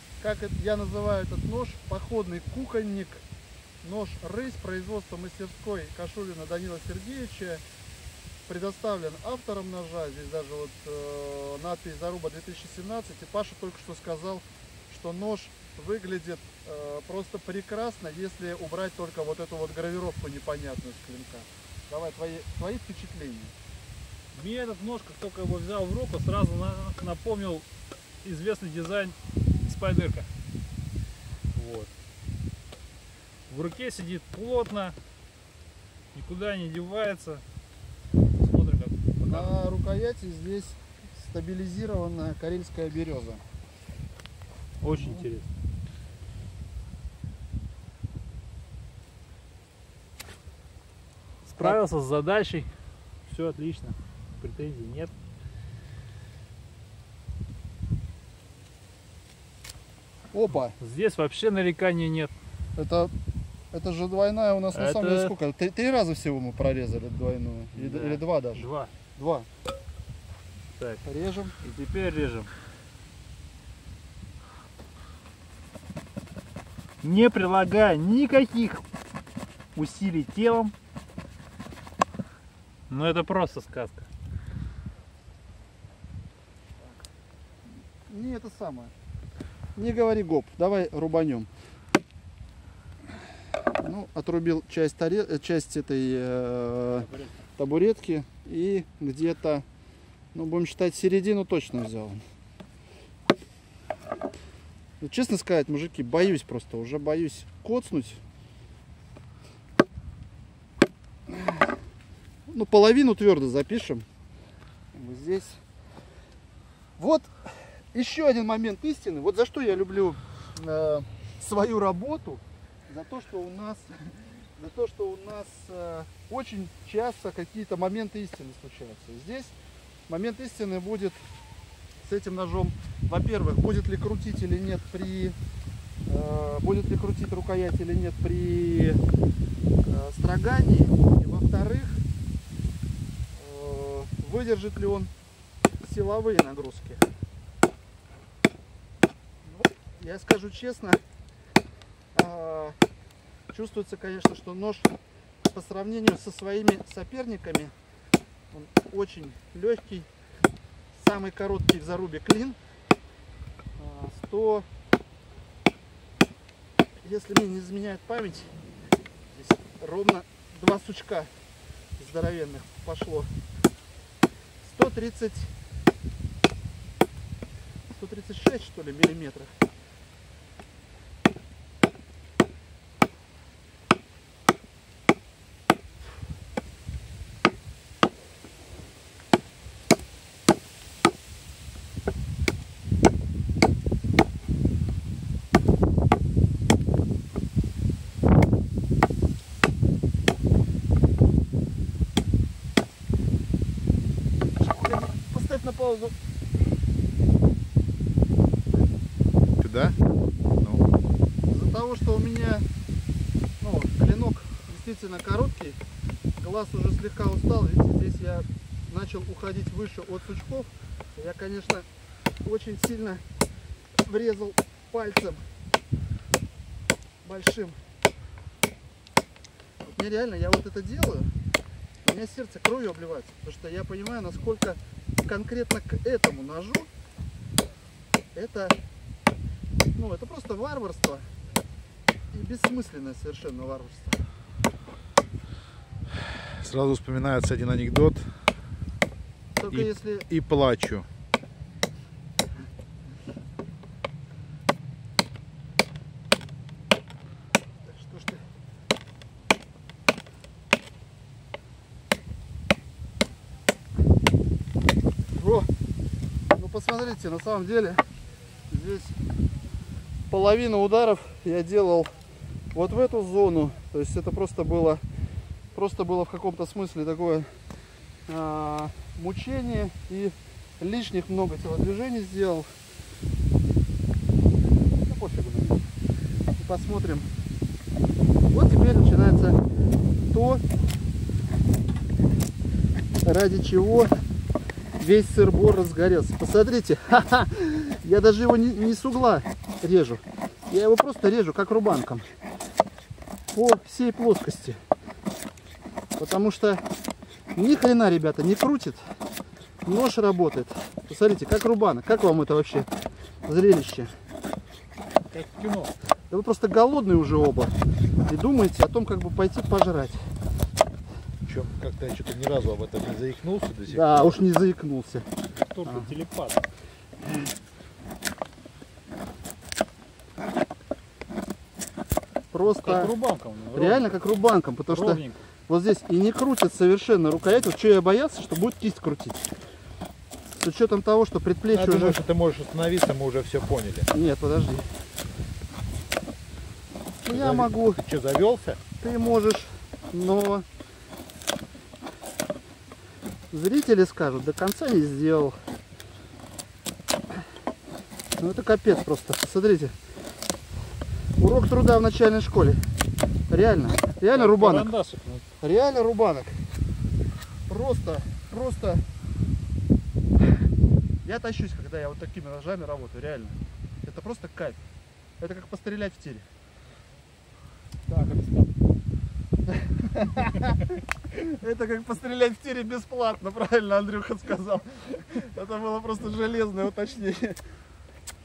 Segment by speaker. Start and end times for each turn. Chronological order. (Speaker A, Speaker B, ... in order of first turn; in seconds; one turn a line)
Speaker A: 0.2-3.2
Speaker A: 3.8-7.6
Speaker A: 8.5-23.5
Speaker B: 24.3-27.6
Speaker B: 28.2-30.3
Speaker B: 31.5-31.9
Speaker B: 33.5-35.0
Speaker B: 36.1-37.4
Speaker B: 38.4-39.5
Speaker A: 39.3-43.4
Speaker B: 44.8-45.5
Speaker A: 44.9-45.2
Speaker B: 51.5-52.7
Speaker B: 53.3-55.1
Speaker A: 60.3-60.7
Speaker B: 60.8-62.3
Speaker A: 62.8-63.1
Speaker A: 63.7-68.7
Speaker B: 64.7-65.3
Speaker B: 67.7-68.9
Speaker A: 69.2-69.5
Speaker A: 71.0-71.5
Speaker B: 71.6-72.5
Speaker B: 77.0-78.8
Speaker B: 79.7-80.7
Speaker B: 82.9-84.1
Speaker A: 88.1-88.9
Speaker A: 89.8-91.5
Speaker A: 93.7-99.6
Speaker B: 97.0-97.3
Speaker A: 100.3-102.2
Speaker A: 105.0-108.2
Speaker A: 111.3-111.6
Speaker A: 112.5-114.0
Speaker A: 114.9-115.6
Speaker A: 117.0-117.3
Speaker A: 117.9-129.5
Speaker A: 130.1-131.2
Speaker A: 132.0-135.3
Speaker A: 136.1-139.0
Speaker A: 139.8-142.0
Speaker A: 143.3-145.1
Speaker A: 145.8-147.1
Speaker A: 149.4-151.0
Speaker A: 152.1-152.8
Speaker A: 153.5-154.9
Speaker A: 155.5-157.7
Speaker A: 158.5-160.1
Speaker A: 160.9-162.6
Speaker A: 163.8-164.6
Speaker A: 167.0-168.5
Speaker A: 169.3-171.3
Speaker A: 172.0-173.3
Speaker A: 174.6-175.5
Speaker A: 177.9-179.5
Speaker A: 204.6-206.1
Speaker C: 209.6-210.0
Speaker C: 210.5-210.8
Speaker A: 211.5-212.6
Speaker A: 213.6-215.8
Speaker A: 216.4-221.8
Speaker A: 222.4-223.2
Speaker A: 224.0-225.4
Speaker A: 227.2-227.8
Speaker A: 229.8-231.3
Speaker A: 232.0-236.9
Speaker A: 238.3-238.8
Speaker A: 239.9-241.3
Speaker A: 242.3-244.2
Speaker C: 246.3-248.3
Speaker A: 249.6-250.3
Speaker C: 249.7-251.1
Speaker A: 257.9-258.4
Speaker A: 265.3-265.7
Speaker A: 266.5-268.1
Speaker A: 268.7-269.1
Speaker A: 270.3-272.1
Speaker A: 272.7-275.0
Speaker A: 275.7-277.5
Speaker A: 278.3-282.7
Speaker A: 284.9-285.8
Speaker A: 286.6-287.3
Speaker A: 288.5-289.6
Speaker A: 290.3-290.6
Speaker A: 293.2-294.1
Speaker A: 295.0-302.3
Speaker A: 303.5-304.8
Speaker A: 306.2-306.8
Speaker A: 307.6-309.0
Speaker A: 309.9-312.9
Speaker A: 313.4-314.1
Speaker B: 315.3-315.9
Speaker A: 316.3-317.7
Speaker A: 318.3-320.2
Speaker C: 321.4-324.3
Speaker A: 323.9-325.2
Speaker B: 325.7-326.6
Speaker A: 332.5-333.1
Speaker B: 332.7-334.1
Speaker A: 333.7-339.5
Speaker B: 334.9-335.4
Speaker A: 340.5-342.2
Speaker C: 341.7-344.1
Speaker A: 344.1-344.8
Speaker A: 347.2-348.0
Speaker C: 347.3-348.8
Speaker A: 349.0-350.6
Speaker A: 353.5-355.6
Speaker A: 358.4-359.9
Speaker A: 361.4-362.8
Speaker A: 363.5-364.9
Speaker B: 364.3-365.4
Speaker A: 365.6-366.6
Speaker A: 367.7-369.0
Speaker A: 371.2-374.8
Speaker A: 375.4-376.4
Speaker B: 378.1-378.7
Speaker A: 379.7-387.6